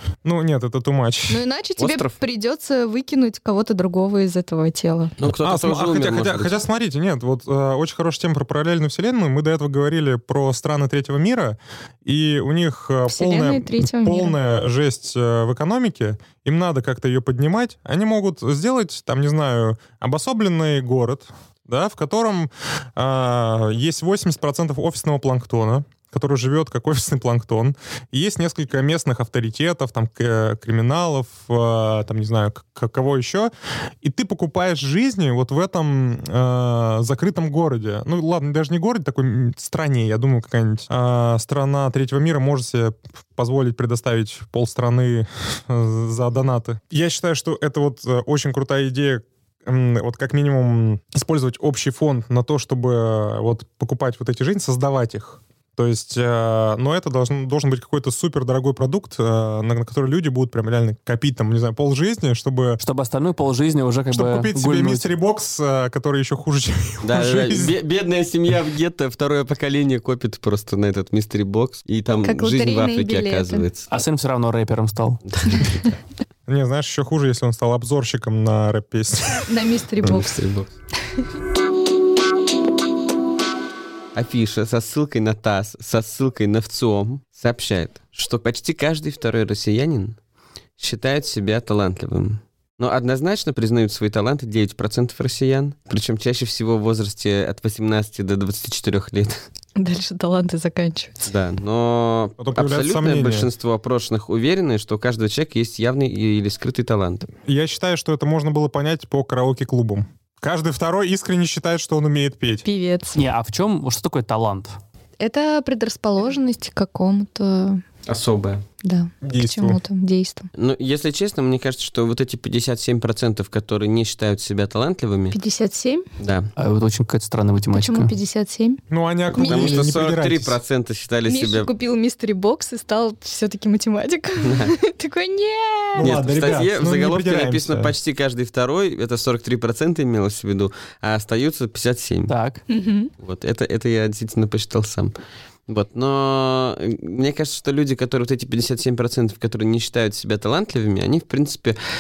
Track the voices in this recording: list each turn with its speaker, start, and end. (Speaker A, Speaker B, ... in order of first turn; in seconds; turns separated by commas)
Speaker A: 0.2-1.4, Speaker B: 1.3-5.2, Speaker C: 1.8-2.1, Speaker C: 5.2-6.5, Speaker A: 5.2-33.5, Speaker B: 13.1-14.4, Speaker A: 34.0-62.8, Speaker D: 62.8-65.1, Speaker A: 64.1-67.7, Speaker C: 67.0-73.9, Speaker B: 72.2-73.7, Speaker D: 73.9-75.2, Speaker C: 75.3-75.8, Speaker A: 76.5-79.5, Speaker B: 79.5-80.4, Speaker C: 80.0-80.7, Speaker C: 84.2-90.2, Speaker C: 90.8-99.4, Speaker B: 99.8-101.3, Speaker C: 101.3-107.3, Speaker A: 102.4-103.5, Speaker A: 107.5-112.7, Speaker B: 112.6-113.2, Speaker D: 113.2-114.8, Speaker B: 115.2-117.8, Speaker C: 118.1-118.6, Speaker B: 118.8-120.5, Speaker A: 119.2-119.8, Speaker C: 120.6-125.4, Speaker B: 125.3-126.1, Speaker C: 126.2-126.5, Speaker D: 126.6-128.1, Speaker B: 127.7-128.8, Speaker A: 128.9-130.6, Speaker C: 129.3-131.7, Speaker B: 129.3-129.8, Speaker B: 131.3-136.1, Speaker C: 134.4-134.7, Speaker A: 136.0-137.9, Speaker C: 136.0-142.3, Speaker D: 142.3-142.6, Speaker B: 142.7-143.1, Speaker C: 143.2-145.2, Speaker C: 145.7-151.8